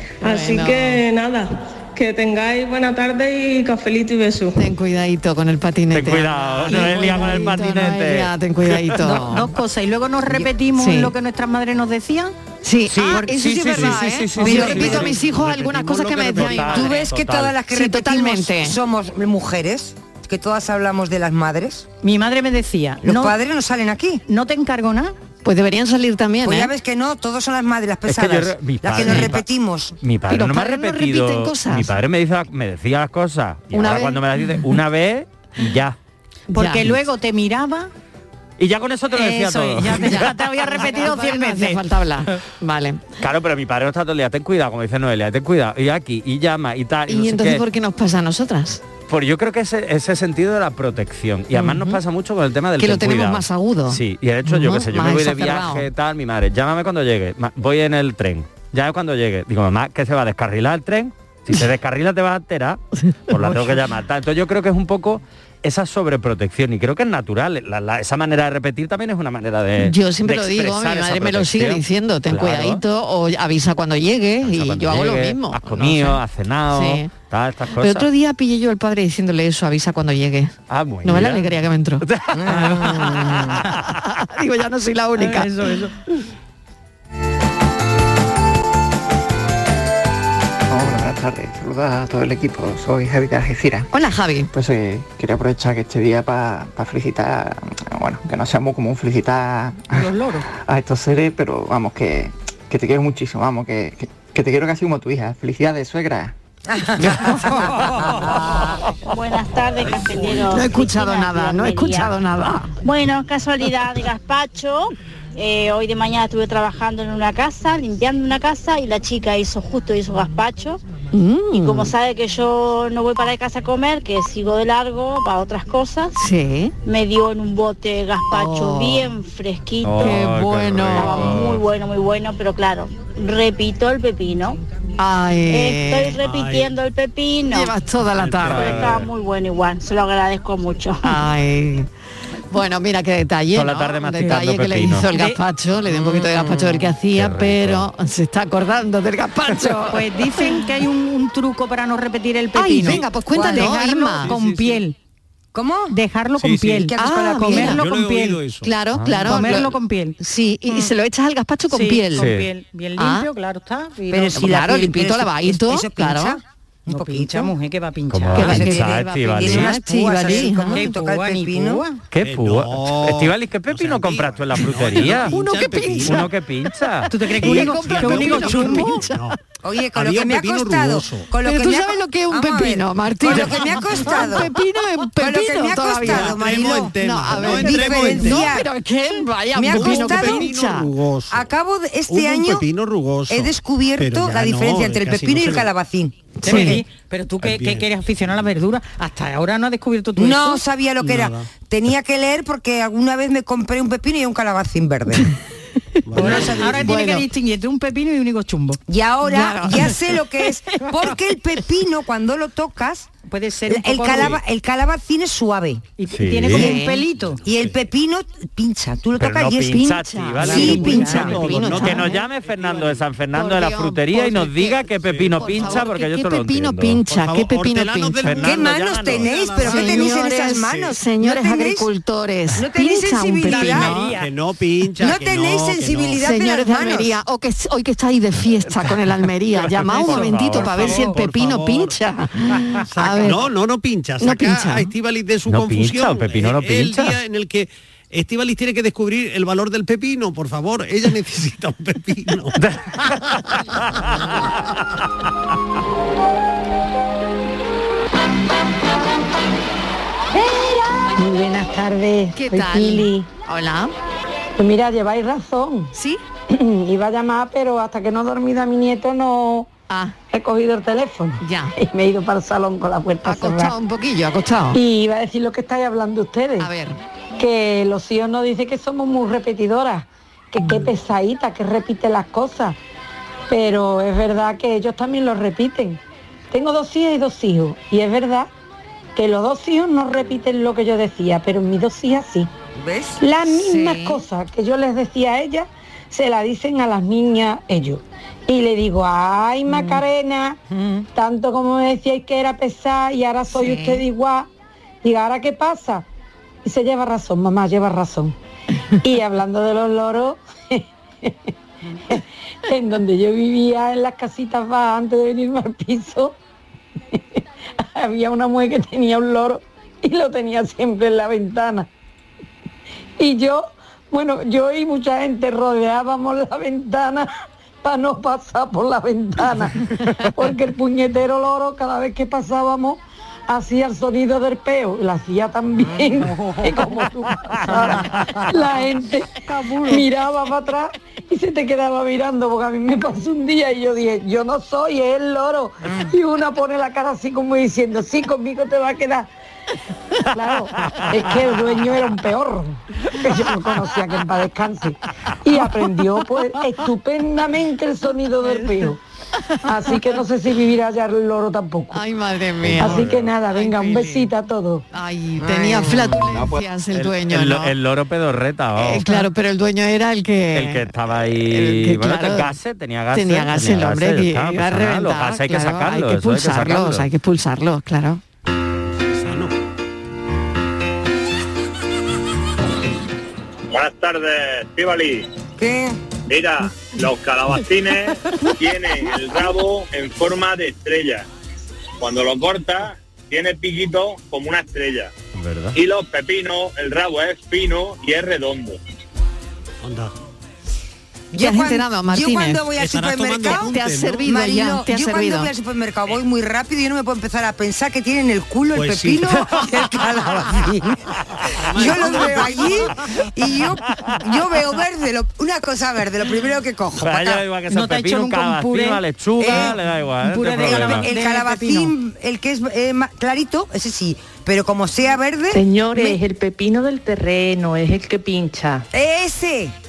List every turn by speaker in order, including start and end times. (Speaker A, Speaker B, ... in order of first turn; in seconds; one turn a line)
Speaker A: 0.2-1.0
Speaker B: 0.2-4.6
Speaker A: 4.5-9.5
Speaker C: 5.9-8.8
Speaker D: 6.7-7.2
Speaker D: 9.0-12.3
Speaker A: 10.8-11.1
Speaker A: 12.6-16.9
Speaker C: 12.9-15.2
Speaker D: 13.0-14.0
Speaker E: 13.8-14.0
Speaker F: 14.4-15.1
Speaker E: 14.6-16.7
Speaker C: 16.3-17.6
Speaker F: 16.6-21.9
Speaker A: 17.7-18.8
Speaker D: 22.0-23.4
Speaker F: 23.0-24.2
Speaker D: 24.3-25.1
Speaker A: 25.4-26.7
Speaker F: 26.4-29.9
Speaker C: 28.1-29.5
Speaker A: 28.9-29.3
Speaker C: 30.0-36.0
Speaker A: 30.3-31.9
Speaker A: 33.7-34.2
Speaker D: 36.5-37.9
Speaker A: 36.5-36.9
Speaker C: 38.6-40.4
Speaker D: 39.1-41.8
Speaker A: 40.0-43.0
Speaker C: 43.2-47.6
Speaker A: 47.1-48.8
Speaker C: 49.1-72.8
Speaker A: 51.5-52.0
Speaker A: 52.8-55.9
Speaker A: 63.3-63.8
Speaker A: 69.8-76.2
Speaker C: 74.4-78.1
Speaker A: 76.7-77.1
Speaker A: 77.8-82.0
Speaker C: 80.7-81.5
Speaker C: 82.0-83.9
Speaker F: 82.3-83.6
Speaker A: 83.9-85.7
Speaker D: 85.2-85.9
Speaker G: 90.7-93.9
Speaker A: 93.9-94.5
Speaker G: 94.5-106.3
Speaker D: 99.9-100.4
Speaker F: 106.7-108.8
Speaker H: 109.0-112.1
Speaker A: 110.2-112.7
Speaker H: 112.8-120.8
Speaker A: 121.1-121.9
Speaker H: 121.5-126.2
Speaker A: 126.1-126.7
Speaker H: 126.8-130.1
Speaker A: 128.3-129.1
Speaker C: 129.8-131.6
Speaker A: 130.0-131.4
Speaker H: 130.9-134.6
Speaker A: 135.0-136.2
Speaker H: 135.5-137.7
Speaker E: 136.2-136.7
Speaker A: 137.5-138.8
Speaker E: 138.2-139.0
Speaker C: 138.4-139.1
Speaker H: 138.6-141.2
Speaker A: 141.0-141.9
Speaker A: 142.5-150.6
Speaker C: 143.5-145.1
Speaker D: 145.1-145.4
Speaker C: 147.1-147.9
Speaker D: 149.8-154.9
Speaker A: 152.5-154.3
Speaker F: 153.3-153.7
Speaker E: 154.2-154.8
Speaker F: 155.5-155.9
Speaker D: 155.9-158.4
Speaker E: 156.4-156.9
Speaker F: 156.9-157.8
Speaker A: 157.0-157.8
Speaker E: 157.7-158.7
Speaker A: 158.6-162.3
Speaker C: 158.9-159.5
Speaker D: 159.1-160.2
Speaker D: 161.7-164.6
Speaker C: 162.2-162.5
Speaker A: 163.0-163.3
Speaker F: 164.1-167.5
Speaker A: 164.3-166.4
Speaker D: 166.9-168.8
Speaker C: 168.1-169.8
Speaker A: 168.3-170.9
Speaker F: 168.4-171.8
Speaker D: 170.1-172.0
Speaker C: 172.1-175.3
Speaker E: 172.2-176.3
Speaker A: 175.2-176.3
Speaker C: 176.0-177.1
Speaker D: 177.1-179.0
Speaker E: 177.4-179.4
Speaker A: 177.4-179.3
Speaker F: 179.6-184.5
Speaker E: 179.9-181.3
Speaker A: 181.4-190.9
Speaker F: 185.2-188.7
Speaker E: 186.0-188.6
Speaker F: 189.5-190.5
Speaker E: 189.7-191.5
Speaker F: 191.3-192.7
Speaker E: 192.1-195.7
Speaker F: 193.3-196.3
Speaker D: 196.4-200.6
Speaker A: 196.4-196.8
Speaker E: 197.4-197.8
Speaker F: 200.2-205.3
Speaker E: 201.0-201.5
Speaker E: 206.1-206.9
Speaker F: 206.2-206.8
Speaker D: 206.2-208.8
Speaker A: 206.2-207.2
Speaker F: 208.9-213.1
Speaker A: 209.2-210.0
Speaker D: 213.3-214.4
Speaker F: 213.7-215.8
Speaker D: 216.0-217.4
Speaker C: 216.1-216.7
Speaker A: 216.5-217.0
Speaker F: 217.4-221.4
Speaker C: 219.2-227.0
Speaker A: 219.7-222.1
Speaker D: 220.4-222.0
Speaker E: 220.9-223.1
Speaker A: 223.3-228.5
Speaker E: 225.0-225.9
Speaker E: 227.1-230.9
Speaker C: 228.2-229.3
Speaker F: 228.4-231.9
Speaker A: 229.6-234.1
Speaker F: 232.5-233.9
Speaker D: 233.5-234.3
Speaker E: 233.7-236.2
Speaker F: 235.0-237.2
Speaker A: 236.2-243.4
Speaker C: 239.6-241.2
Speaker E: 239.9-242.0
Speaker E: 242.7-252.6
Speaker A: 244.2-244.9
Speaker C: 245.5-247.2
Speaker C: 252.6-254.0
Speaker I: 261.1-263.3
Speaker A: 262.3-263.9
Speaker I: 264.6-265.9
Speaker A: 265.9-266.2
Speaker I: 266.5-269.7
Speaker A: 269.9-270.1
Speaker I: 270.3-273.7
Speaker A: 271.4-271.8
Speaker A: 273.2-274.8
Speaker I: 274.7-276.7
Speaker A: 276.6-277.0
Speaker I: 277.4-282.8
Speaker A: 280.6-280.9
Speaker I: 283.5-286.0
Speaker I: 286.5-288.5
Speaker I: 289.1-292.5
Speaker F: 292.8-293.2
Speaker I: 293.2-300.6
Speaker A: 293.4-294.2
Speaker I: 301.1-304.5
Speaker A: 303.5-304.0
Speaker I: 305.0-306.1
Speaker I: 306.6-308.3
Speaker I: 309.0-311.5
Speaker I: 312.1-316.4
Speaker I: 317.8-321.9
Speaker I: 323.2-327.3
Speaker I: 327.8-349.3
Speaker D: 337.6-338.1
Speaker D: 339.5-340.0
Speaker I: 350.3-359.0
Speaker A: 359.6-360.0
Speaker I: 359.6-362.0
Speaker A: 361.9-364.3
Speaker C: 362.6-363.3
Speaker I: 362.8-364.8
Speaker A: 364.9-367.7
Speaker F: 365.4-366.3
Speaker C: 366.9-369.3
Speaker A: 368.8-370.9
Speaker C: 370.5-377.1
Speaker A: 371.4-372.5
Speaker A: 373.1-378.2
Speaker E: 378.9-379.5
Speaker J: 383.7-385.3
Speaker F: 385.6-386.0
Speaker J: 386.3-391.2
Speaker J: 392.0-395.1
Speaker C: 395.4-395.8
Speaker J: 395.7-398.8
Speaker E: 399.8-400.1
Speaker F: 401.3-403.7
Speaker A: 401.4-402.6
Speaker E: 402.8-404.3
Speaker A: 403.5-405.5
Speaker F: 404.2-411.0
Speaker E: 408.7-410.4
Speaker E: 411.6-413.0
Speaker F: 411.7-417.4
Speaker C: 417.0-421.1
Speaker D: 417.7-421.9
Speaker F: 419.4-419.8
Speaker F: 420.6-426.2
Speaker K: 425.5-428.9
Speaker F: 428.9-429.7